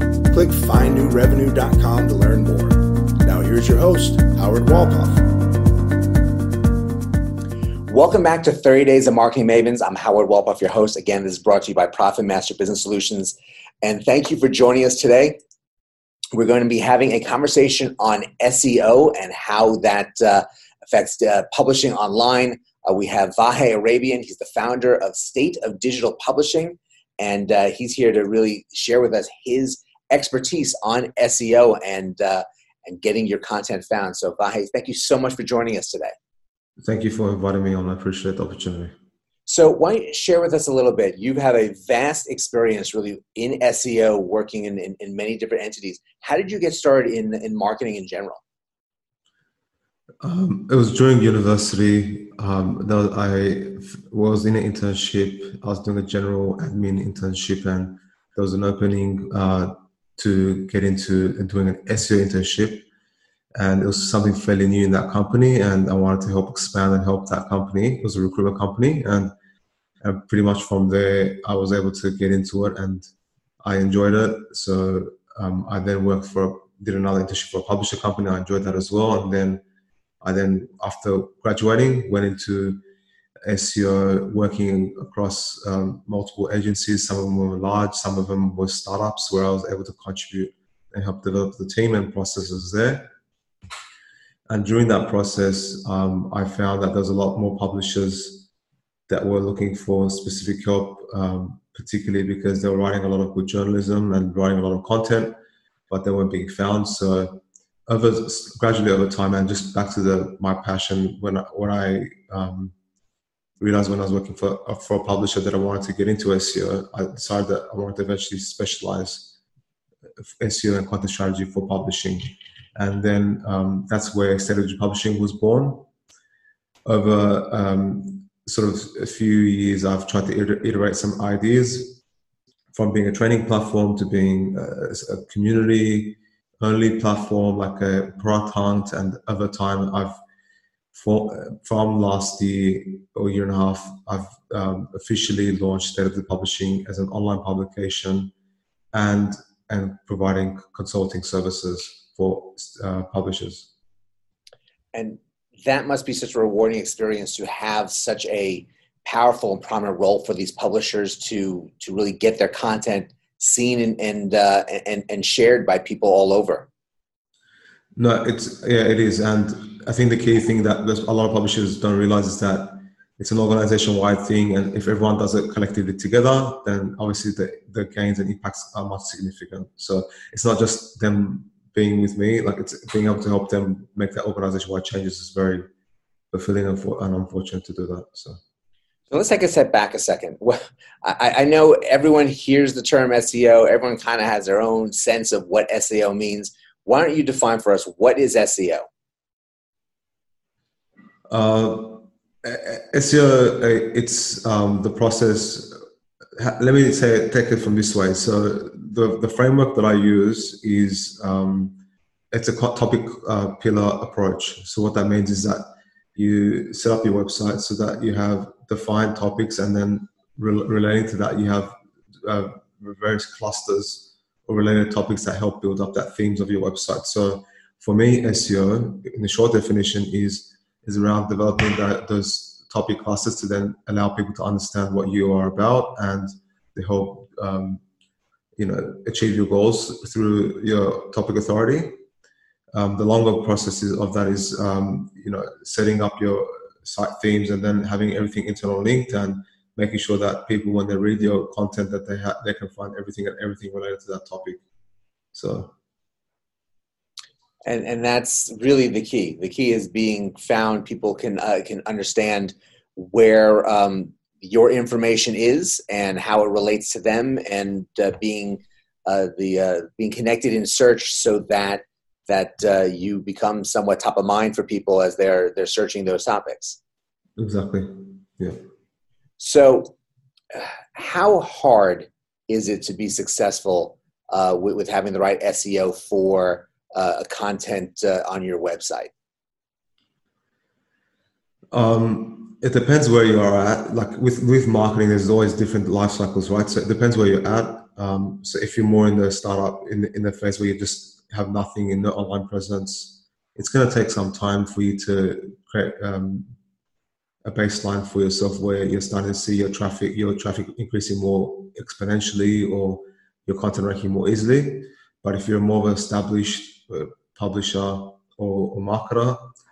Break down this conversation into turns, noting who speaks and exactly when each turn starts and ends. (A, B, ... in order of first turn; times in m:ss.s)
0:00.3-0:05.2 A
0:07.9-0:15.4 B
0:16.3-0:36.1 B
0:36.8-0:38.9 C
0:39.5-0:48.4 B
0:50.2-1:02.9 C
1:03.6-1:09.3 C
1:10.0-1:13.1 C
1:13.6-1:19.6 C
1:20.2-1:22.8 C
1:23.5-1:33.1 C
1:34.5-1:38.5 C
1:39.1-1:45.4 C
1:45.9-1:52.7 C
1:53.6-1:59.4 C
2:00.2-2:05.9 C
2:06.9-2:12.0 C
2:12.7-2:20.2 C
2:20.9-2:28.3 C
2:28.9-2:33.7 C
2:34.9-2:46.7 B
2:48.0-3:05.7 C
3:06.3-3:08.4 C
3:09.1-3:18.9 B
3:21.3-3:25.8 C
3:26.4-3:31.8 C
3:32.3-3:57.8 C
3:58.6-4:02.0 C
4:02.7-4:14.6 C
4:15.3-4:15.7 C
4:17.6-4:36.8 B
4:37.4-4:38.6 C
4:39.4-4:40.0 B
4:40.5-4:49.1 B
4:51.7-5:06.5 C
5:07.4-5:19.5 C